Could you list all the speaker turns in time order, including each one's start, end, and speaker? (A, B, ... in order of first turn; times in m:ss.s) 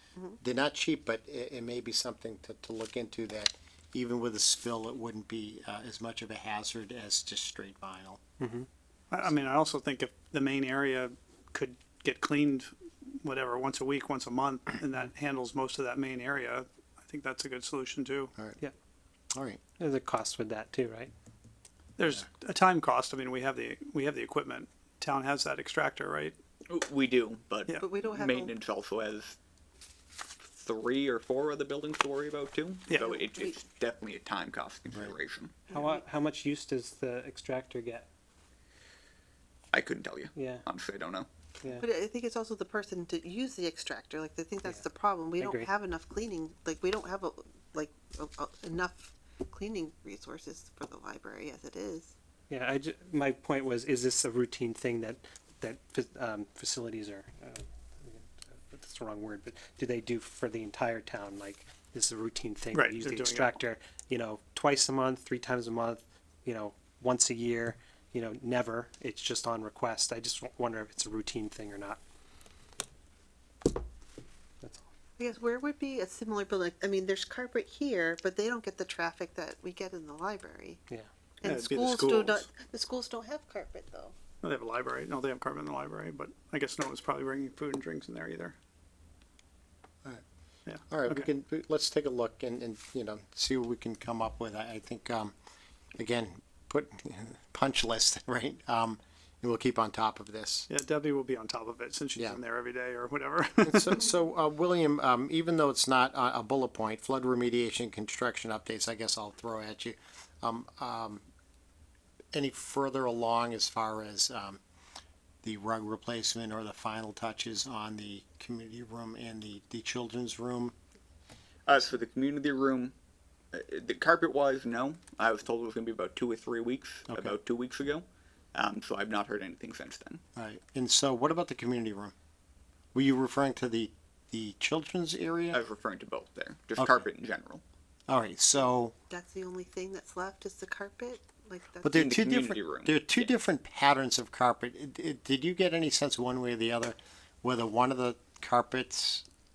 0:00.4-0:08.2 A
0:08.4-0:08.7 B
0:09.1-0:18.3 C
0:19.3-0:19.6 A
0:19.8-0:21.1 B
0:22.0-0:26.3 C
0:26.7-0:29.4 D
0:27.8-0:28.5 E
0:30.4-0:35.6 D
0:32.9-0:33.1 C
0:33.0-0:33.6 E
0:35.7-0:36.0 E
0:35.7-0:38.1 B
0:39.7-0:41.3 D
0:40.3-0:40.6 B
0:41.8-0:52.1 E
0:45.4-0:45.7 B
0:52.5-1:12.0 B
1:02.7-1:03.6 C
1:15.2-1:20.8 E
1:21.4-1:24.2 E
1:21.4-1:22.5 C
1:24.4-1:28.5 C
1:30.7-1:31.3 C
1:30.9-1:35.3 A
1:36.0-1:40.7 A
1:40.7-1:44.0 C
1:43.6-1:51.2 A
1:52.3-1:54.6 A
1:55.4-2:00.7 A
2:01.6-2:02.9 D
2:03.5-2:10.2 D
2:07.1-2:07.4 A
2:10.4-2:12.1 A
2:12.9-2:15.6 A
2:15.5-2:17.6 D
2:16.8-2:17.0 A
2:18.1-2:18.9 A
2:19.1-2:22.1 E
2:21.8-2:29.2 A
2:21.9-2:23.3 D